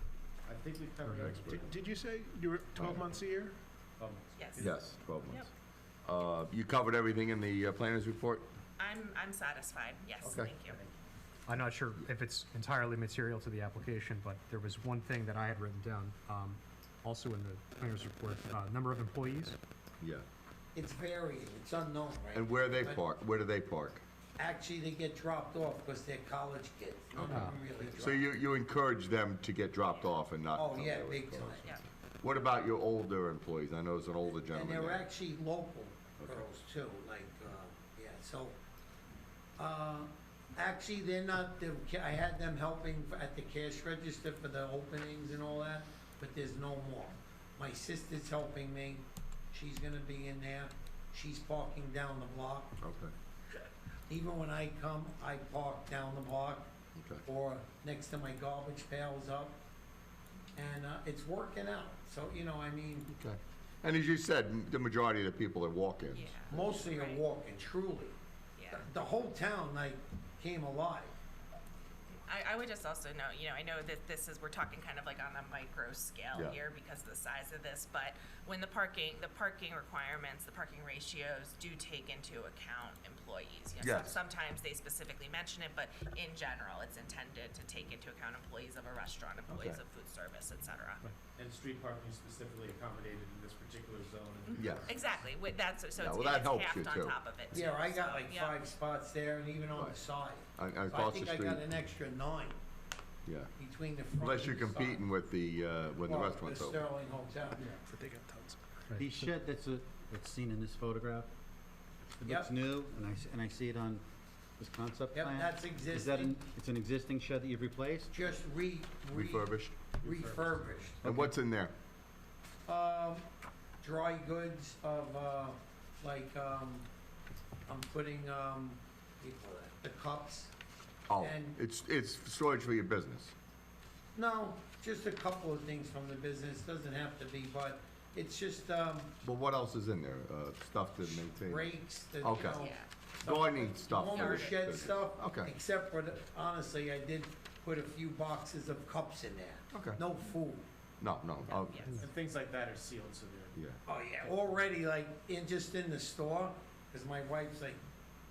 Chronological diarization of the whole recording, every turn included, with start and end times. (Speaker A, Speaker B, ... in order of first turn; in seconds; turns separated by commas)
Speaker A: 0.5-1.7, Speaker B: 1.1-3.6, Speaker A: 4.0-4.7, Speaker C: 4.4-5.5, Speaker D: 4.6-5.5, Speaker D: 6.0-8.5, Speaker C: 8.8-10.8, Speaker D: 10.2-10.6, Speaker E: 11.5-19.6, Speaker D: 20.0-20.2, Speaker F: 20.8-23.0, Speaker D: 22.3-24.0, Speaker F: 24.4-28.4, Speaker E: 27.2-27.6, Speaker D: 27.3-35.1, Speaker F: 30.5-31.7, Speaker C: 31.6-31.9, Speaker F: 34.5-38.6, Speaker D: 36.2-36.5, Speaker F: 39.6-52.8, Speaker D: 52.8-53.1, Speaker F: 54.1-56.7, Speaker D: 57.0-57.2, Speaker F: 57.2-59.6, Speaker F: 60.5-63.1, Speaker D: 63.1-66.8, Speaker C: 66.1-67.2, Speaker F: 66.5-68.2, Speaker C: 68.6-68.9, Speaker F: 68.7-71.1, Speaker C: 72.3-91.0, Speaker D: 76.3-76.6, Speaker D: 83.8-84.2, Speaker D: 89.5-89.8, Speaker A: 91.4-94.9, Speaker D: 94.6-94.9, Speaker C: 94.8-98.6, Speaker D: 96.0-97.2, Speaker F: 97.5-102.6, Speaker D: 100.6-101.7, Speaker D: 103.3-103.5, Speaker F: 103.6-105.0, Speaker D: 104.2-106.9, Speaker F: 106.0-107.7, Speaker B: 107.7-109.0, Speaker E: 108.9-109.3, Speaker G: 109.0-111.3, Speaker G: 112.2-114.0, Speaker F: 112.2-112.5, Speaker G: 114.6-118.1, Speaker F: 115.1-116.4, Speaker F: 118.1-121.0, Speaker D: 119.1-119.8, Speaker A: 120.0-121.0, Speaker G: 121.0-121.3, Speaker D: 121.0-121.7, Speaker F: 122.7-123.3, Speaker F: 123.8-126.9, Speaker F: 127.7-130.5, Speaker D: 131.1-133.3, Speaker F: 131.2-131.6, Speaker F: 134.2-139.2, Speaker D: 139.2-141.7, Speaker F: 141.1-150.7, Speaker D: 142.2-145.5, Speaker C: 142.5-142.9, Speaker C: 144.0-144.6, Speaker D: 149.7-150.0, Speaker D: 151.0-152.1, Speaker C: 151.5-152.1, Speaker A: 152.0-153.6, Speaker D: 153.6-153.8, Speaker F: 153.9-157.8, Speaker A: 154.2-154.5